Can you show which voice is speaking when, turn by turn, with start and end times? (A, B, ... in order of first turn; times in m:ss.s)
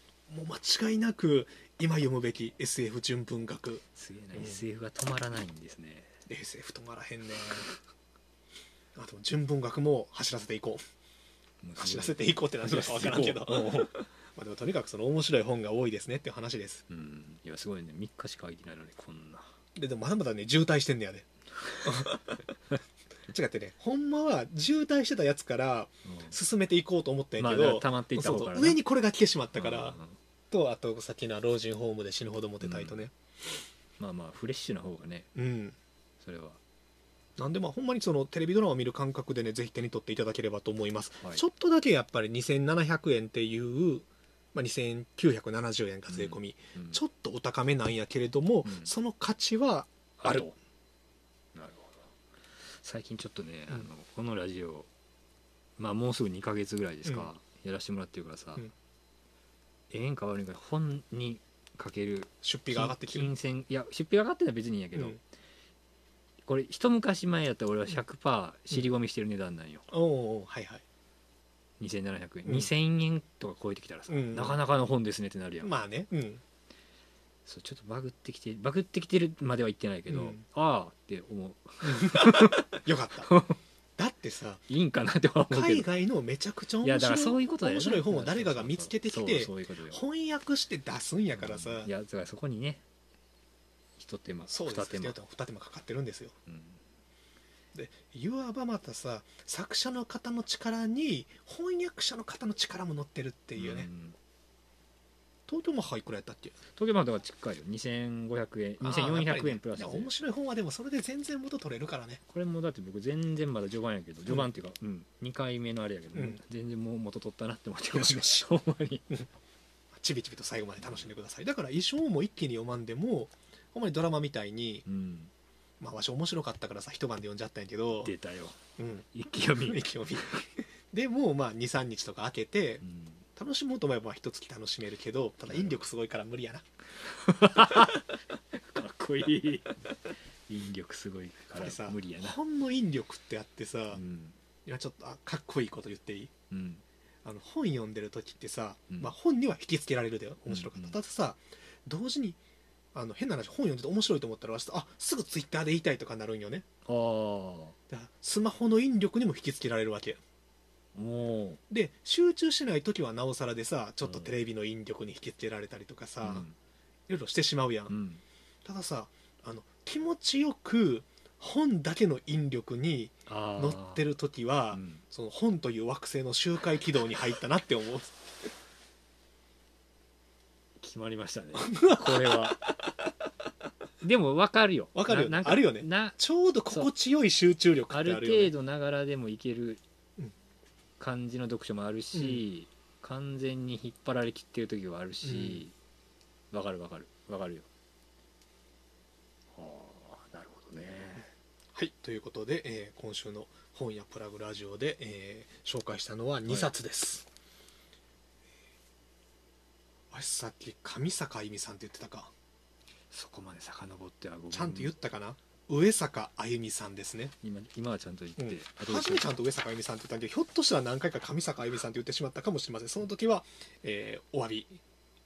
0:00.3-0:03.8 A
0:04.0-0:06.2 B
0:04.3-0:04.6 A
0:06.3-0:07.7 A
0:09.0-0:10.8 A
0:11.6-0:13.9 B
0:11.8-0:16.8 A
0:16.9-0:19.5 B
0:19.8-0:21.3 A
0:21.8-0:22.4 A
0:21.8-0:22.1 B
0:23.3-0:30.0 A
0:26.1-0:26.3 B
0:27.4-0:28.8 B
0:29.6-0:30.2 B
0:30.5-0:33.1 A
0:32.6-0:33.0 B
0:34.0-0:35.3 B
0:35.4-0:35.8 A
0:36.2-0:36.6 B
0:37.4-0:50.5 A
0:46.1-0:47.0 B
0:48.6-0:48.9 B
0:50.2-0:50.6 B
0:51.5-0:52.1 B
0:52.7-0:54.9 B
0:55.8-0:58.6 B
0:59.9-1:05.2 B
1:02.4-1:03.3 A
1:06.4-1:09.9 B
1:09.9-1:10.8 A
1:11.8-1:15.7 B
1:12.5-1:12.7 A
1:14.1-1:14.6 A
1:15.6-1:16.4 A
1:17.5-1:22.6 B
1:20.1-1:20.4 A
1:21.8-1:23.3 A
1:23.3-1:23.6 B
1:24.0-1:24.6 A
1:24.7-1:25.9 B
1:25.5-1:31.9 A
1:26.8-1:30.0 B
1:31.4-1:32.8 B
1:34.0-1:35.2 B
1:34.5-1:36.3 A
1:36.5-1:36.8 B
1:37.8-1:43.9 A
1:43.6-1:44.2 B
1:45.5-1:46.6 A
1:46.7-1:50.1 B
1:48.8-1:52.2 A
1:52.3-1:59.0 B
1:57.9-1:58.5 A
2:00.0-2:04.9 A
2:00.8-2:01.1 B
2:04.9-2:05.3 B
2:05.8-2:08.1 A
2:08.0-2:08.6 B
2:08.8-2:12.8 A
2:09.1-2:10.4 B
2:12.8-2:13.2 B
2:13.4-2:16.6 A
2:15.5-2:15.8 B
2:17.0-2:19.9 B
2:20.5-2:22.4 B
2:21.6-2:24.0 A
2:23.9-2:24.4 B
2:24.7-2:26.3 A
2:26.5-2:26.8 B
2:27.2-2:32.4 A
2:30.5-2:31.0 B
2:32.9-2:36.7 A
2:36.8-2:37.8 B
2:37.9-2:40.2 A
2:41.0-2:41.6 B
2:41.7-2:46.5 A
2:44.0-2:44.3 B
2:46.2-2:46.6 B
2:47.1-2:48.0 A
2:47.9-2:48.2 B
2:48.6-2:58.1 A
2:53.3-2:54.0 B
2:54.7-2:55.0 B
3:00.8-3:02.6 B
3:01.6-3:02.9 A
3:04.0-3:06.2 B
3:04.9-3:08.5 A
3:07.9-3:09.8 B
3:11.0-3:15.7 B
3:12.2-3:12.4 A
3:15.2-3:15.6 A
3:16.5-3:17.7 B
3:19.6-3:21.3 B
3:21.8-3:27.3 A
3:26.5-3:26.7 B
3:30.1-3:32.3 A
3:33.1-3:35.0 B
3:34.5-3:37.4 A
3:37.4-3:39.3 B
3:38.4-3:44.8 A